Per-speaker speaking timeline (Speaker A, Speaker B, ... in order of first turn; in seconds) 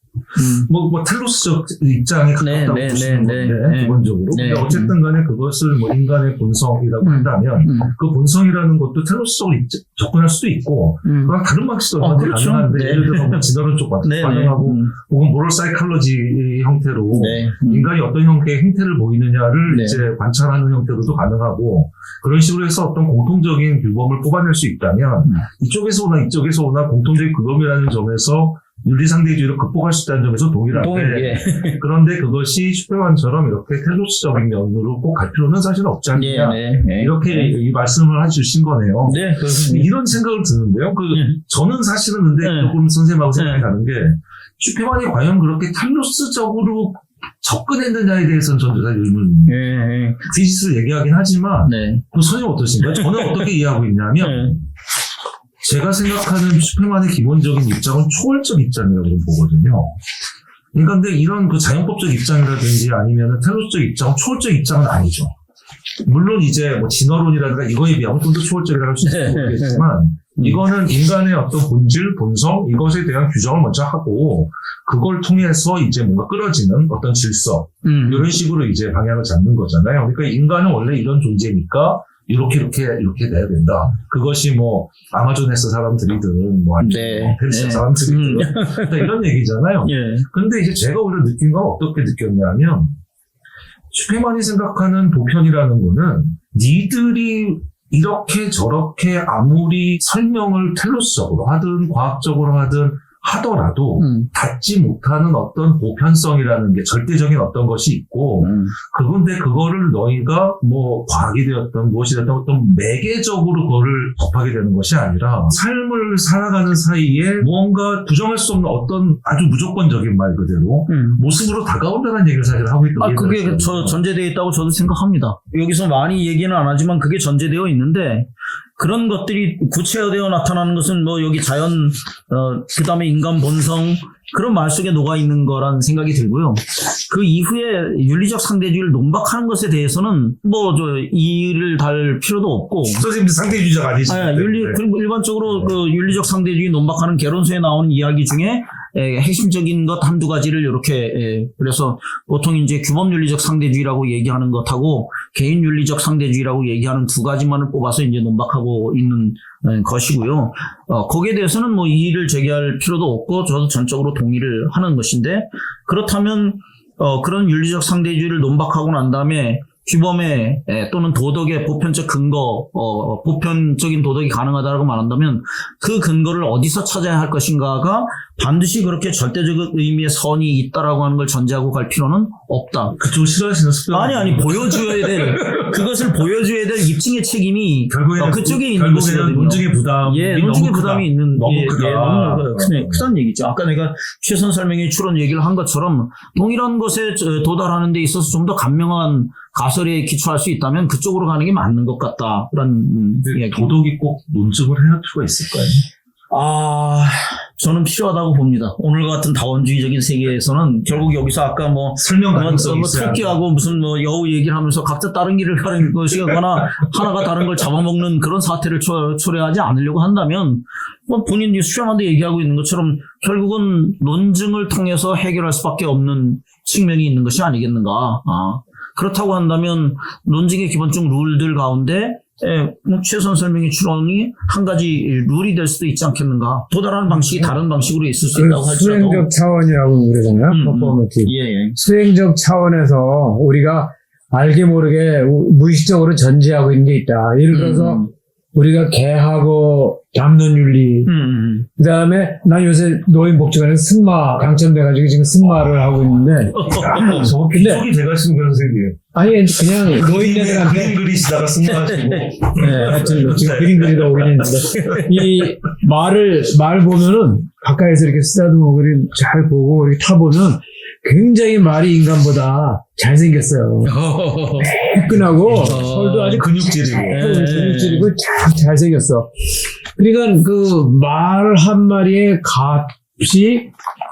Speaker A: 0.3-0.7, 2.4-5.0, 7.0-7.9, 11.0-11.3, 12.0-13.4, 14.0-14.9, 17.1-17.9, 19.7-20.0, 30.7-31.8, 36.1-37.5, 39.0-39.9, 41.1-41.4, 42.4-42.8, 43.3-43.6, 49.5-50.3, 51.6-52.0, 52.8-53.5, 54.2-54.6, 69.0-69.8, 77.8-78.4, 86.8-89.1, 89.8-90.2, 104.0-104.3, 108.4-108.7, 120.9-121.2, 123.0-143.0, 144.1-183.0, 183.9-203.8, 206.3-239.3, 240.5-241.8, 247.5-248.1, 251.0-251.7, 256.5-257.3, 261.6-263.2, 273.8-274.8, 275.5-276.4, 277.1-278.1
Speaker B: 0.4-49.5, 50.3-54.6, 55.6-59.9, 60.7-65.3, 66.0-93.0, 93.9-124.0, 142.9-144.8, 182.9-185.8, 187.9-193.0, 203.2-205.8, 212.0-213.4, 256.8-259.1, 259.8-265.1, 275.3-277.3
Speaker C: 238.3-251.1, 251.8-257.8, 259.1-261.0, 262.4-273.9, 274.6-279.3, 279.9-283.7